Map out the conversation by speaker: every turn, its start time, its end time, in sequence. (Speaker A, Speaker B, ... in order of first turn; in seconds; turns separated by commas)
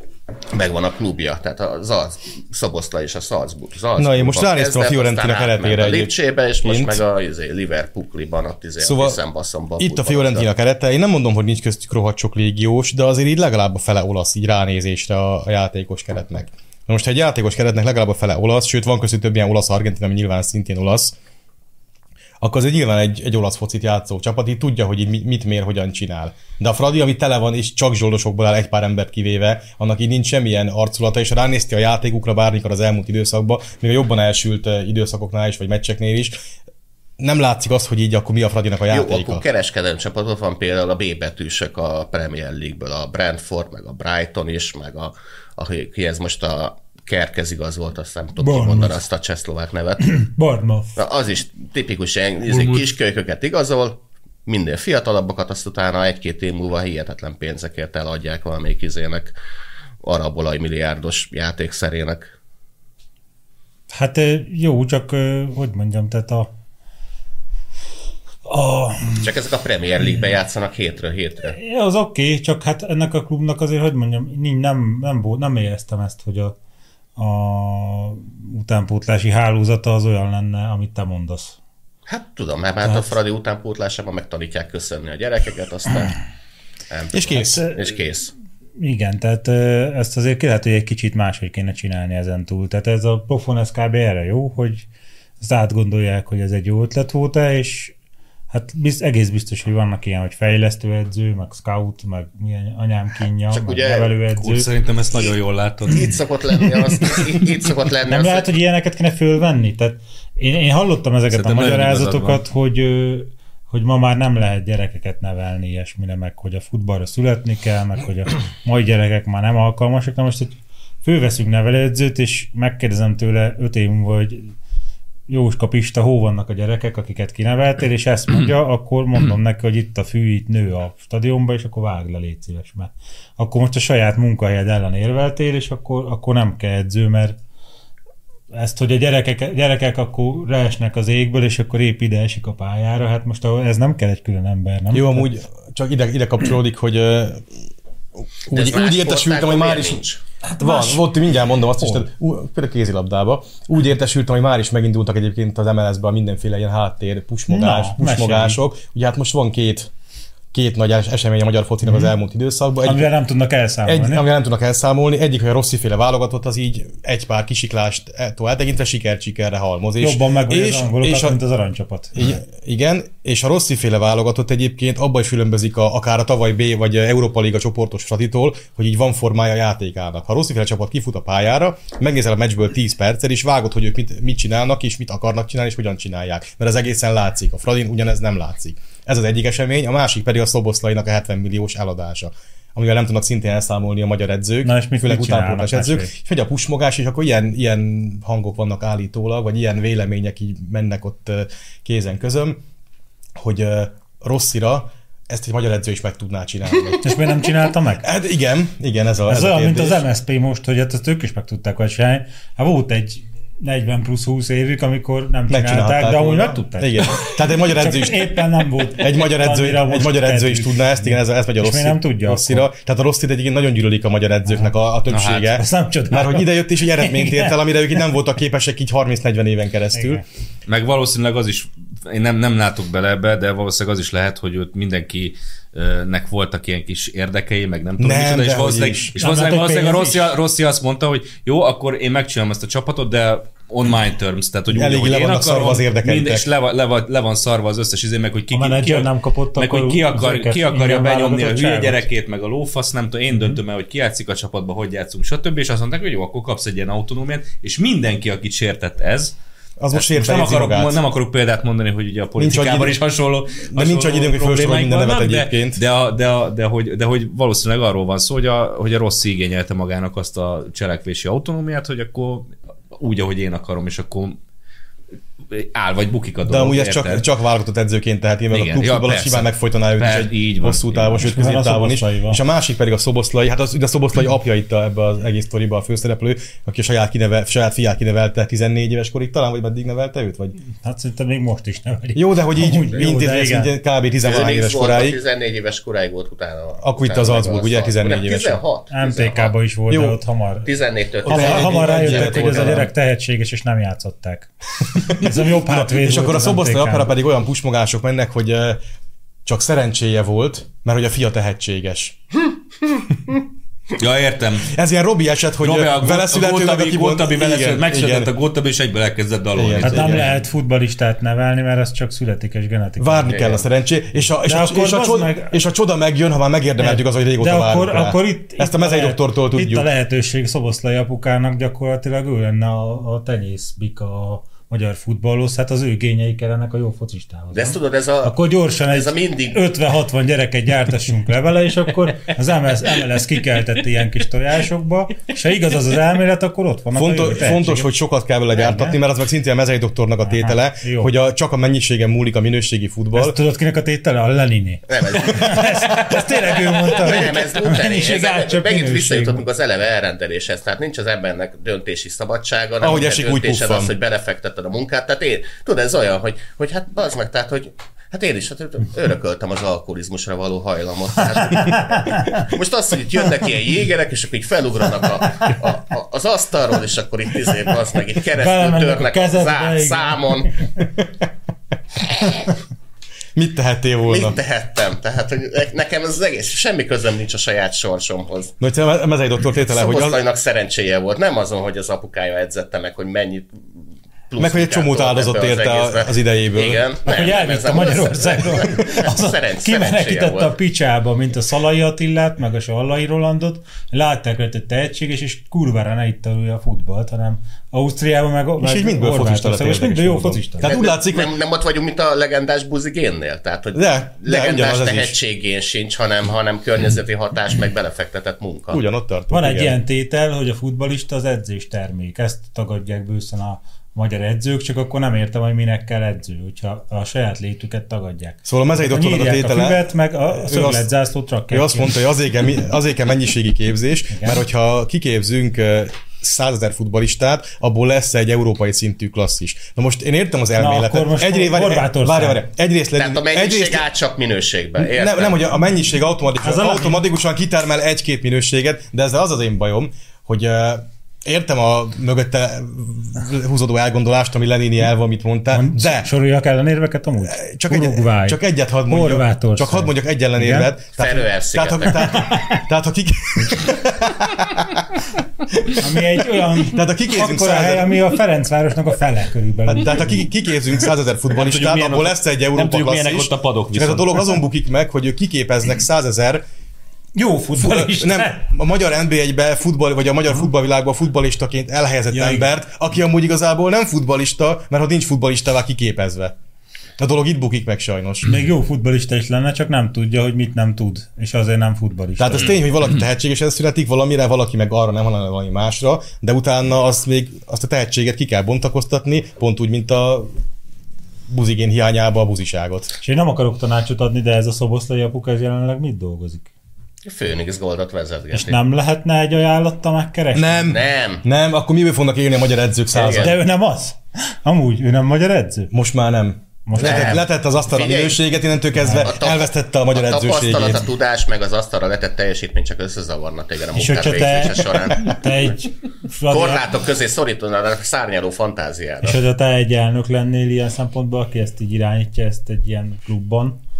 Speaker A: 0.5-10.5, Speaker B: 4.0-6.1, Speaker B: 6.6-7.0, Speaker B: 8.8-9.2, Speaker B: 9.8-21.1, Speaker B: 22.4-36.4, Speaker B: 37.2-39.4, Speaker A: 38.9-50.2, Speaker C: 48.4-49.0, Speaker C: 50.1-50.9, Speaker A: 51.0-59.3, Speaker D: 52.5-52.8, Speaker A: 60.0-62.3, Speaker C: 63.9-66.5, Speaker C: 68.5-69.3, Speaker A: 69.2-71.6, Speaker C: 71.5-76.5, Speaker C: 77.2-81.5, Speaker A: 82.1-86.1, Speaker A: 86.9-88.3, Speaker B: 87.1-87.6, Speaker C: 87.3-87.8, Speaker C: 88.8-94.8, Speaker C: 95.4-97.9, Speaker C: 98.5-104.7, Speaker A: 103.5-104.1, Speaker D: 104.4-106.1, Speaker A: 105.9-108.5, Speaker C: 108.1-124.5, Speaker D: 111.3-112.4, Speaker C: 125.3-137.3, Speaker C: 138.5-145.3, Speaker B: 144.9-147.4, Speaker B: 148.5-150.0, Speaker A: 148.5-150.2, Speaker C: 150.4-151.1, Speaker B: 150.6-159.9, Speaker C: 157.5-158.6, Speaker B: 160.5-163.1, Speaker C: 161.8-162.1, Speaker C: 162.8-164.2, Speaker B: 163.8-171.4, Speaker C: 170.0-172.4, Speaker B: 172.1-202.6, Speaker C: 194.6-196.1, Speaker B: 203.3-207.2, Speaker C: 207.0-208.1, Speaker B: 208.0-210.0, Speaker C: 209.3-222.7, Speaker B: 215.5-218.4, Speaker B: 218.9-230.2, Speaker D: 225.1-225.5, Speaker C: 225.5-227.5, Speaker C: 229.9-230.2, Speaker D: 230.7-259.3, Speaker B: 238.0-239.1, Speaker C: 239.2-240.3, Speaker B: 244.7-246.5, Speaker C: 248.5-252.0, Speaker B: 259.8-261.0, Speaker D: 259.9-274.4, Speaker B: 262.4-263.0, Speaker B: 263.7-265.8, Speaker D: 275.5-277.2, Speaker B: 276.5-290.6, Speaker D: 278.5-281.2, Speaker C: 281.2-282.4, Speaker C: 290.8-293.7, Speaker B: 292.1-295.2, Speaker A: 294.2-299.5, Speaker B: 296.8-298.6, Speaker C: 298.9-300.7, Speaker B: 299.9-300.2, Speaker A: 300.6-302.8, Speaker C: 301.2-307.1, Speaker B: 301.2-302.9, Speaker B: 304.9-308.8, Speaker B: 309.4-312.2, Speaker D: 314.0-314.7, Speaker B: 314.7-318.3, Speaker D: 315.6-320.4, Speaker B: 319.5-320.3, Speaker C: 319.8-323.6, Speaker B: 323.0-329.9, Speaker A: 323.2-323.6, Speaker C: 324.4-325.6, Speaker C: 326.8-347.9, Speaker A: 337.5-339.6, Speaker B: 346.9-353.4, Speaker C: 348.5-349.0, Speaker C: 350.2-351.1, Speaker C: 353.1-359.4, Speaker A: 354.9-380.6, Speaker B: 362.8-363.9, Speaker C: 371.3-372.5, Speaker C: 378.4-380.4, Speaker A: 382.1-382.4, Speaker B: 383.3-384.4, Speaker A: 384.1-388.5, Speaker B: 388.6-390.2, Speaker A: 389.6-393.6, Speaker A: 394.3-400.5, Speaker B: 394.4-396.8, Speaker C: 397.1-410.7, Speaker B: 408.6-411.3, Speaker A: 410.6-418.8, Speaker B: 413.7-415.1, Speaker B: 418.7-419.8, Speaker C: 419.3-432.0, Speaker B: 428.4-430.9, Speaker B: 431.5-443.8, Speaker C: 434.1-434.4, Speaker C: 440.6-442.4, Speaker A: 443.0-445.4, Speaker B: 444.8-456.1, Speaker C: 446.4-447.0, Speaker C: 455.5-460.7, Speaker B: 457.2-465.0, Speaker A: 460.9-462.2, Speaker C: 462.1-462.6, Speaker C: 465.8-470.2, Speaker B: 466.7-468.0, Speaker B: 469.6-476.4, Speaker D: 471.3-474.4, Speaker C: 477.1-478.4, Speaker B: 477.6-486.3, Speaker C: 482.1-482.4, Speaker B: 487.0-488.3, Speaker C: 488.2-492.6, Speaker B: 492.2-500.3, Speaker B: 501.3-502.9, Speaker C: 503.0-506.5, Speaker A: 507.0-508.6, Speaker C: 508.3-510.8, Speaker B: 510.3-513.3, Speaker A: 510.7-511.2, Speaker A: 512.9-513.4, Speaker C: 513.1-515.7, Speaker B: 515.7-520.8, Speaker C: 516.6-517.2, Speaker A: 516.8-518.2, Speaker C: 518.8-519.1, Speaker A: 519.0-525.5, Speaker C: 523.7-526.6, Speaker A: 526.3-529.2, Speaker C: 529.0-533.6